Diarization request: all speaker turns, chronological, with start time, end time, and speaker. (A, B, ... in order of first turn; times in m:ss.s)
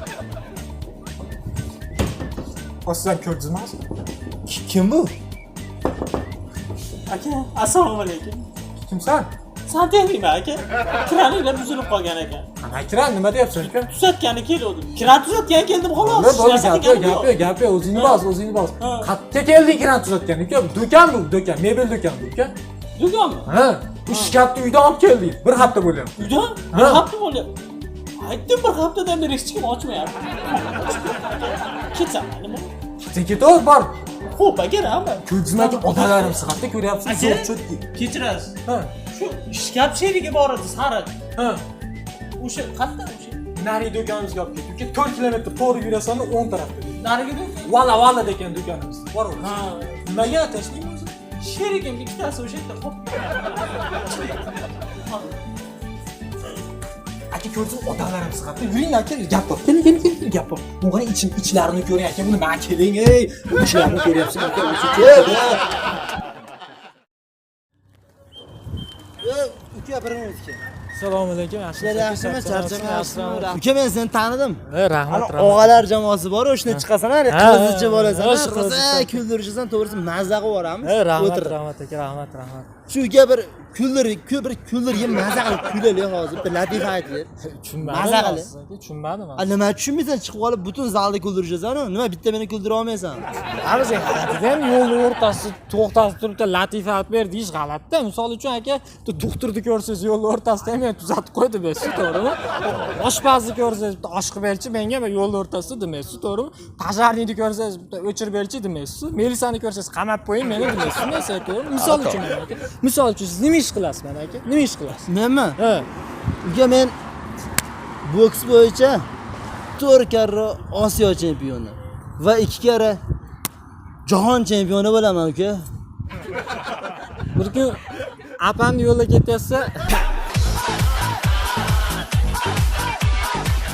0:02.8-0:03.8 A
0:04.5-0:05.1 B
0:07.1-0:08.4 C
0:08.8-0:09.3 A
0:09.7-0:12.4 C
0:12.6-0:13.9 A
0:13.8-0:17.3 C
0:16.0-0:22.5 A
0:17.9-0:18.2 C
0:18.8-0:19.1 C
0:23.0-0:23.5 C
0:23.4-0:26.1 A
0:24.1-0:24.4 C
0:26.2-0:27.5 C
0:26.7-0:27.0 A
0:28.2-0:32.7 C
0:33.1-0:34.0 A
0:34.3-0:36.4 C
0:35.2-0:37.8 A
0:37.0-0:38.5 C
0:38.6-0:38.9 A
0:39.1-0:41.1 C
0:41.4-0:41.6 A
0:42.4-0:43.4 C
0:43.5-0:47.0 A
0:47.0-0:47.7 C
0:47.6-0:51.1 A
0:49.4-0:50.2 C
0:51.4-0:55.4 C
0:57.3-1:05.6 A
1:04.9-1:05.6 B
1:09.2-1:10.6 B
1:10.9-1:13.6 A
1:11.8-1:21.6 B
1:14.7-1:15.8 A
1:16.7-1:19.2 A
1:20.8-1:22.7 A
1:22.9-1:27.3 B
1:27.4-1:29.4 A
1:27.8-1:28.5 B
1:29.4-1:33.2 B
1:33.6-1:55.8 A
1:55.1-1:55.6 B
1:56.4-1:56.9 B
1:58.0-1:59.0 B
1:59.8-2:03.0 B
2:04.0-2:05.6 B
2:07.4-2:07.8 A
2:08.4-2:09.9 A